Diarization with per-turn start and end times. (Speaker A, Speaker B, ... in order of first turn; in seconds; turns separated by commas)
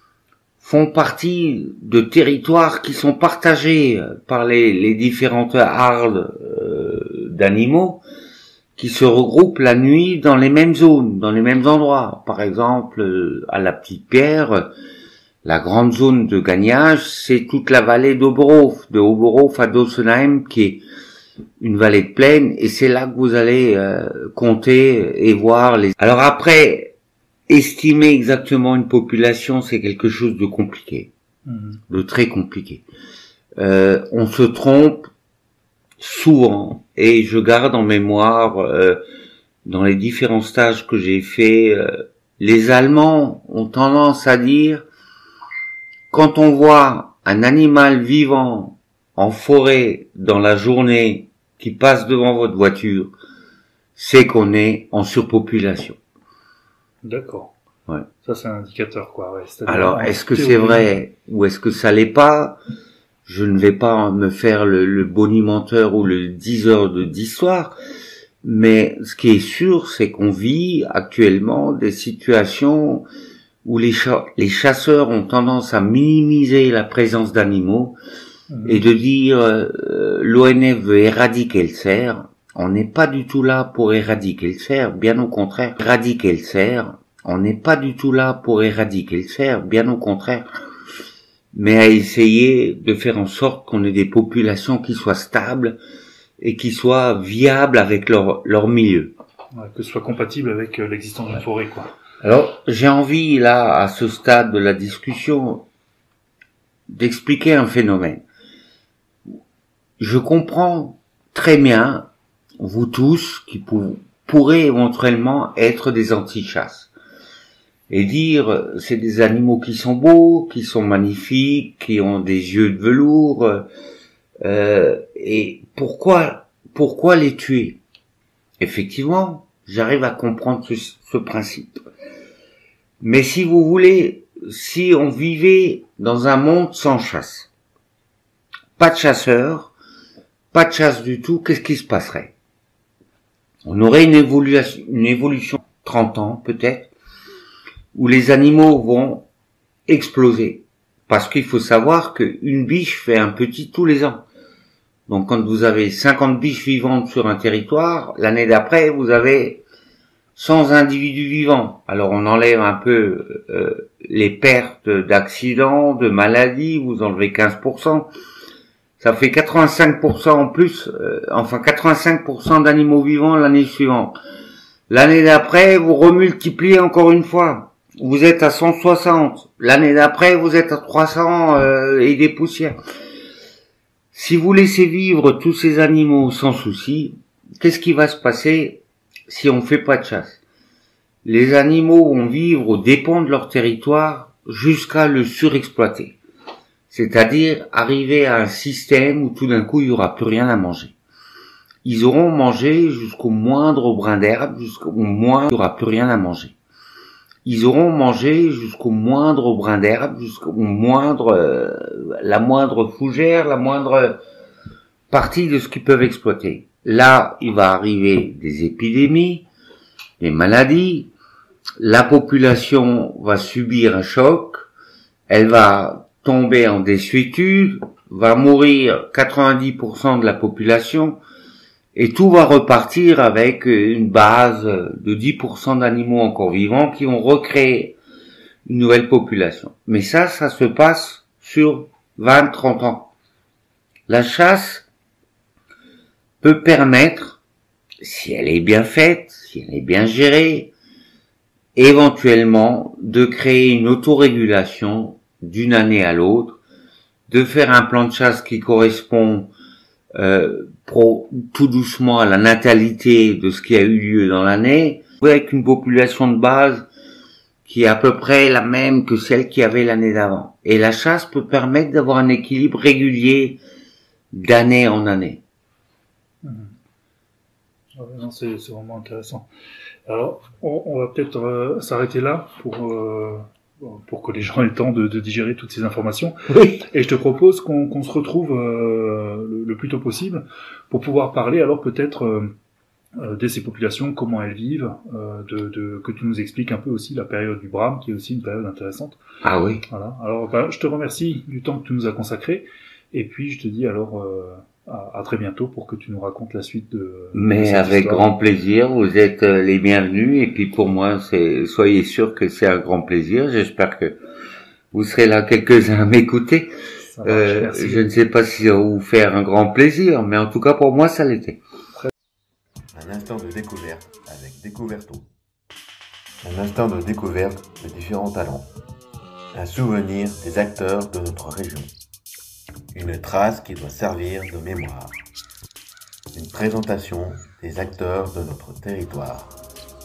Speaker A: 0.6-8.0, Speaker A: 8.8-14.7, Speaker A: 15.4-20.8, Speaker A: 21.6-26.9, Speaker A: 27.5-31.1, Speaker B: 31.4-31.8, Speaker A: 31.9-32.9, Speaker A: 33.6-35.1, Speaker A: 36.0-39.0, Speaker A: 39.6-44.8, Speaker A: 46.1-53.1, Speaker A: 54.0-56.0, Speaker B: 57.0-57.5, Speaker B: 58.2-60.9, Speaker A: 59.7-62.6, Speaker A: 63.2-67.8, Speaker A: 68.4-73.0, Speaker A: 73.6-78.0, Speaker B: 78.5-78.8, Speaker A: 78.6-90.5, Speaker A: 91.5-95.8, Speaker A: 96.4-99.1, Speaker B: 99.5-101.9, Speaker A: 102.2-105.6, Speaker A: 106.9-108.2, Speaker A: 110.0-112.1, Speaker A: 112.6-116.9, Speaker A: 117.9-123.7, Speaker A: 124.4-127.8, Speaker A: 128.6-131.8, Speaker A: 133.0-137.5, Speaker A: 138.8-139.7, Speaker A: 140.5-142.3, Speaker A: 143.6-146.9, Speaker A: 147.9-149.3, Speaker A: 149.9-154.2, Speaker A: 155.1-159.6, Speaker A: 160.3-168.1, Speaker A: 169.0-174.2, Speaker A: 174.9-182.8, Speaker A: 184.1-190.4, Speaker A: 191.2-196.2, Speaker A: 196.9-200.9, Speaker A: 201.8-206.5, Speaker A: 207.4-214.2, Speaker A: 215.1-219.4, Speaker A: 220.2-221.1, Speaker A: 221.8-224.7, Speaker A: 225.3-231.2, Speaker A: 231.9-238.0, Speaker A: 238.7-243.1, Speaker A: 244.1-244.9, Speaker A: 246.4-247.4, Speaker A: 248.0-250.7, Speaker A: 251.7-256.6, Speaker A: 257.3-259.5, Speaker A: 260.1-266.9, Speaker A: 267.6-273.6, Speaker A: 274.3-275.4, Speaker B: 276.4-276.7, Speaker B: 277.9-279.5, Speaker B: 280.1-292.5, Speaker B: 293.2-299.2, Speaker A: 299.4-299.8, Speaker B: 299.9-308.2, Speaker A: 307.3-314.2, Speaker A: 314.9-316.7, Speaker B: 317.1-318.1, Speaker A: 317.2-321.6, Speaker C: 322.9-325.3, Speaker C: 326.4-328.7, Speaker C: 329.5-331.9, Speaker C: 332.9-335.2, Speaker C: 336.3-339.6